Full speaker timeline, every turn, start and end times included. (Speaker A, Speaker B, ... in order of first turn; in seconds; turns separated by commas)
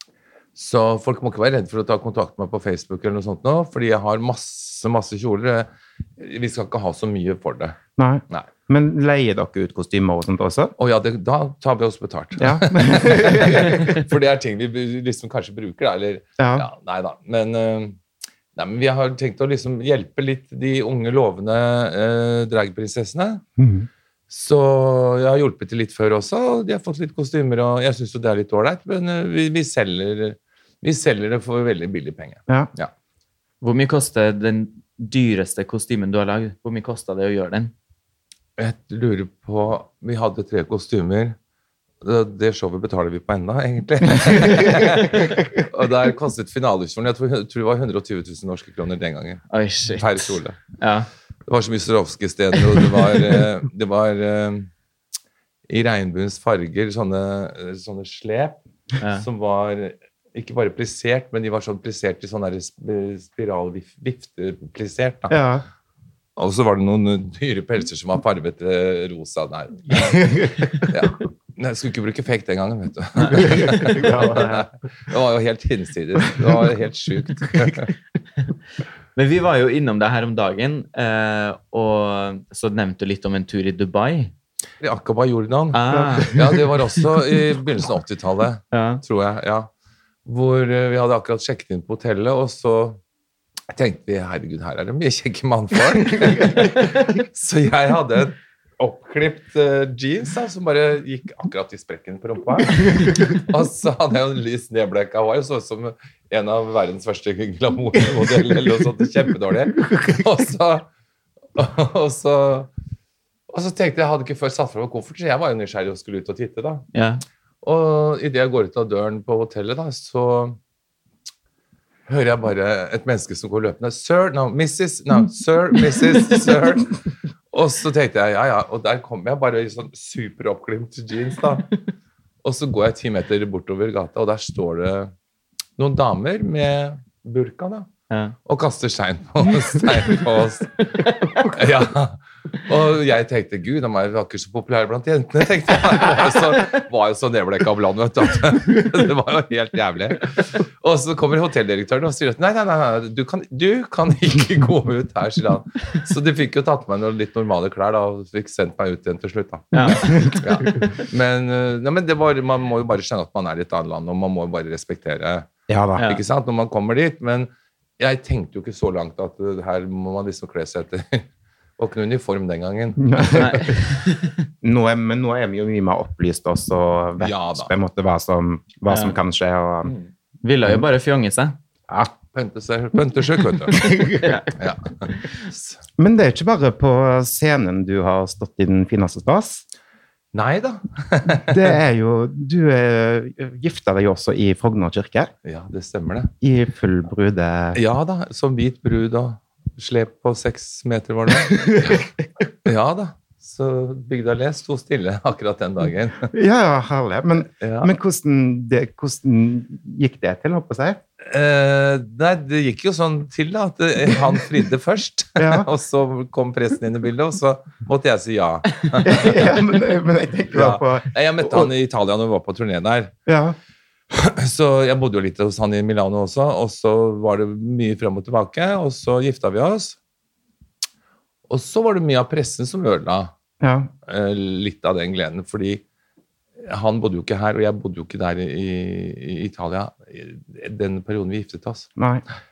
Speaker A: 0.5-7.8, Speaker B: 8.0-10.7, Speaker A: 10.8-18.0, Speaker B: 12.4-14.0, Speaker B: 16.4-16.7, Speaker A: 18.6-23.4, Speaker B: 23.6-23.9, Speaker A: 24.3-32.9, Speaker C: 33.6-37.7, Speaker A: 38.6-41.4, Speaker A: 42.0-50.6, Speaker B: 44.4-45.3, Speaker C: 49.5-51.1, Speaker A: 51.5-54.7, Speaker A: 55.7-58.6, Speaker C: 59.0-59.2, Speaker A: 59.1-65.4, Speaker B: 65.3-65.6, Speaker A: 66.4-77.9, Speaker B: 70.1-70.8, Speaker B: 73.3-74.7, Speaker C: 79.2-84.3, Speaker A: 84.8-89.7, Speaker C: 85.7-86.5, Speaker C: 88.7-89.0, Speaker A: 90.2-93.0, Speaker A: 93.7-110.9, Speaker A: 111.5-112.7, Speaker A: 113.5-116.8, Speaker C: 116.9-117.2, Speaker A: 117.6-120.6, Speaker A: 122.1-127.0, Speaker A: 127.5-131.7, Speaker A: 132.4-135.1, Speaker A: 135.8-137.9, Speaker C: 138.1-138.3, Speaker A: 138.4-165.5, Speaker C: 141.0-141.5, Speaker C: 159.7-160.3, Speaker B: 160.1-160.4, Speaker B: 165.7-166.1, Speaker C: 166.0-166.2, Speaker A: 166.0-171.3, Speaker A: 171.8-173.8, Speaker B: 173.0-173.8, Speaker C: 173.3-174.3, Speaker B: 174.6-179.9, Speaker A: 177.2-177.7, Speaker C: 178.9-179.2, Speaker C: 180.4-181.6, Speaker A: 182.3-185.8, Speaker B: 183.7-184.4, Speaker C: 183.9-184.5, Speaker B: 186.0-189.6, Speaker A: 190.3-191.8, Speaker B: 191.4-195.3, Speaker A: 195.4-196.3, Speaker B: 196.4-197.8, Speaker A: 197.7-202.0, Speaker B: 201.6-202.0, Speaker A: 202.6-206.3, Speaker B: 206.3-211.0, Speaker A: 207.6-207.9, Speaker A: 211.2-219.7, Speaker B: 215.4-215.7, Speaker B: 219.0-221.7, Speaker A: 220.5-223.1, Speaker B: 223.2-223.5, Speaker A: 224.1-230.0, Speaker A: 231.5-233.3, Speaker B: 233.6-233.9, Speaker A: 234.1-235.8, Speaker A: 236.6-241.9, Speaker B: 242.0-242.2